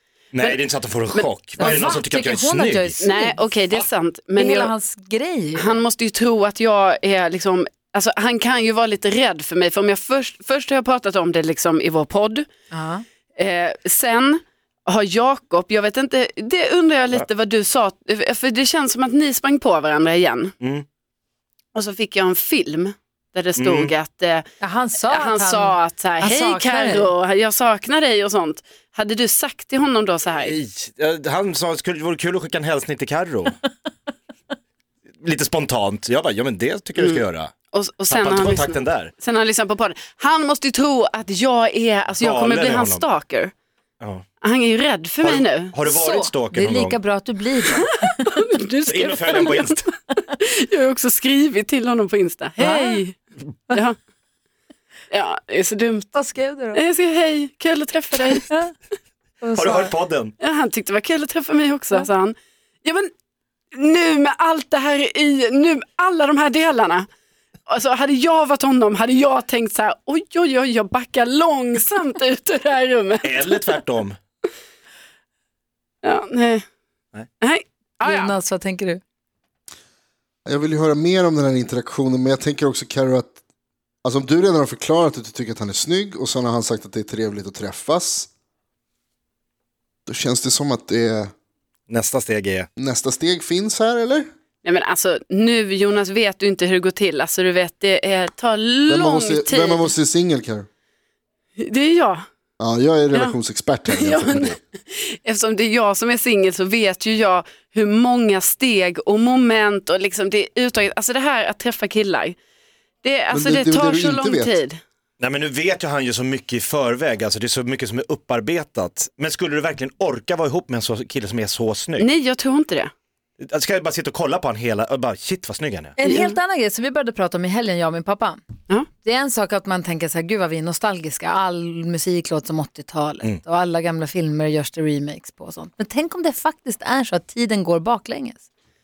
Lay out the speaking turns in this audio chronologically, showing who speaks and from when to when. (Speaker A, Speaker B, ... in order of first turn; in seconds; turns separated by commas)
Speaker A: 0.3-3.0, Speaker B: 1.1-2.0, Speaker C: 1.6-3.5, Speaker B: 3.0-4.7, Speaker C: 4.3-5.8, Speaker B: 5.5-12.5, Speaker C: 12.7-13.0, Speaker B: 13.3-20.5, Speaker B: 21.7-24.4, Speaker A: 23.6-23.9, Speaker C: 24.6-27.1, Speaker B: 25.0-30.5, Speaker A: 30.4-33.5, Speaker A: 35.2-37.5, Speaker B: 37.0-43.5, Speaker A: 38.1-39.1, Speaker A: 42.2-43.0, Speaker B: 44.4-45.7, Speaker A: 45.2-47.0, Speaker C: 45.9-48.2, Speaker B: 48.3-53.2, Speaker A: 48.9-49.9, Speaker C: 52.6-53.0, Speaker B: 55.1-56.1, Speaker C: 56.1-56.8, Speaker B: 56.7-58.5, Speaker C: 58.5-58.7, Speaker C: 59.4-59.9, Speaker A: 59.5-60.3, Speaker B: 60.4-63.1, Speaker B: 63.7-67.1, Speaker B: 67.7-73.6, Speaker A: 73.2-74.2, Speaker B: 76.0-76.6, Speaker B: 77.4-78.3, Speaker C: 78.0-79.0, Speaker D: 80.5-83.4, Speaker D: 84.0-88.3, Speaker D: 90.1-91.3, Speaker A: 91.9-92.7, Speaker D: 92.8-94.3, Speaker B: 94.6-99.9, Speaker D: 98.9-100.7, Speaker B: 101.6-102.2, Speaker D: 102.6-104.6, Speaker B: 103.9-112.4, Speaker B: 113.0-114.8, Speaker D: 113.3-114.6, Speaker A: 115.2-122.1, Speaker B: 122.0-122.9, Speaker A: 123.4-126.0, Speaker C: 126.0-128.4, Speaker B: 126.0-126.3, Speaker C: 129.0-138.4